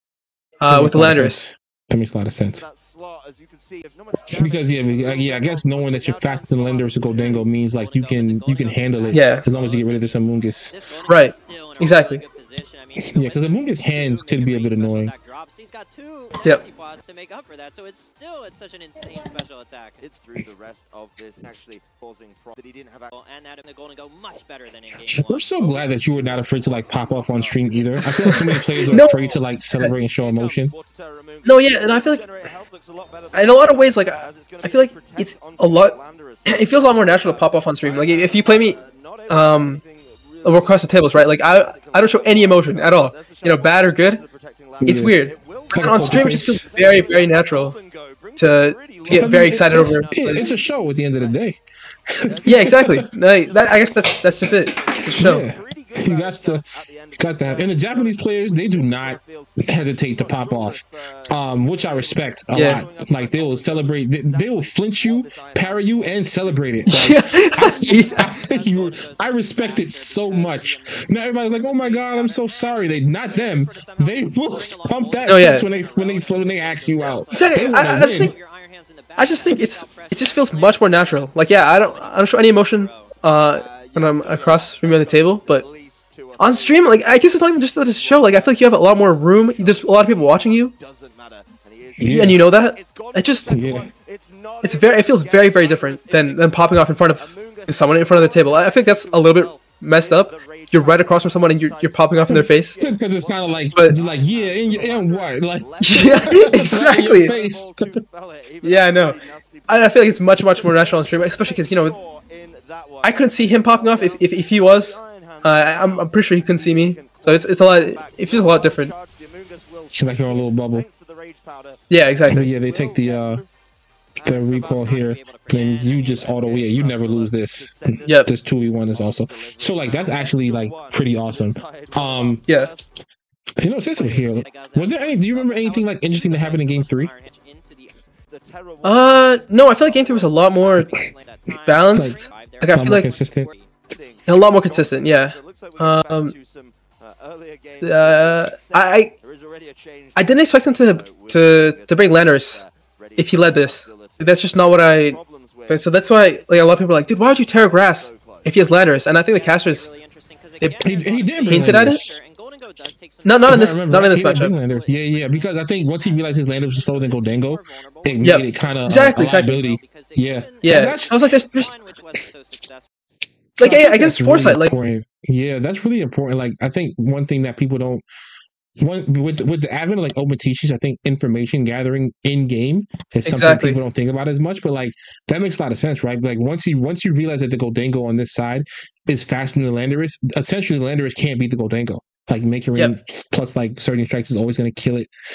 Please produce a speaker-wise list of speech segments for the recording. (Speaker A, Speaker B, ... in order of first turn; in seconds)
Speaker A: 0.6-1.4, 9.1-9.4, 11.1-12.2, 28.2-29.1, 31.4-32.2, 33.3-36.0, 36.5-39.8, 40.4-44.2, 44.8-47.8, 48.4-50.5, 52.5-55.4, 62.5-62.8, 66.9-68.3, 75.2-75.7, 77.3-78.3, 79.2-85.6, 86.4-90.7, 92.1-93.5, 94.6-102.8, 105.8-107.3, 108.6-112.0, 113.0-118.9, 121.9-122.5, 128.0-128.3, 138.8-140.9, 141.7-143.1, 144.3-146.3, 147.8-149.1, 150.2-152.6, 153.2-159.9, 161.4-162.0, 163.2-164.5, 168.2-169.6, 170.6-171.7, 173.6-174.7, 183.2-183.8
Speaker B: 0.7-2.6, 4.3-10.7, 13.1-15.1, 25.1-30.7, 44.8-45.1, 45.7-46.6, 49.1-51.6, 52.1-53.0, 55.1-78.3, 92.0-92.4, 93.5-93.9, 102.2-107.8, 119.9-120.8, 122.3-123.4, 124.2-132.4, 133.6-137.1, 141.9-142.2, 142.7-143.5, 160.8-162.2, 163.4-171.2, 173.6-178.0, 178.8-195.1
Speaker C: 2.4-7.4, 20.0-23.1, 25.6-51.5, 52.2-67.2, 83.4-123.5, 124.2-125.2, 125.9-132.9, 138.2-140.2, 143.9-158.6
Speaker D: 6.8-10.0, 10.7-20.0, 23.1-25.5, 67.7-83.1, 124.5-126.6, 133.9-138.1, 139.8-143.7, 159.3-172.9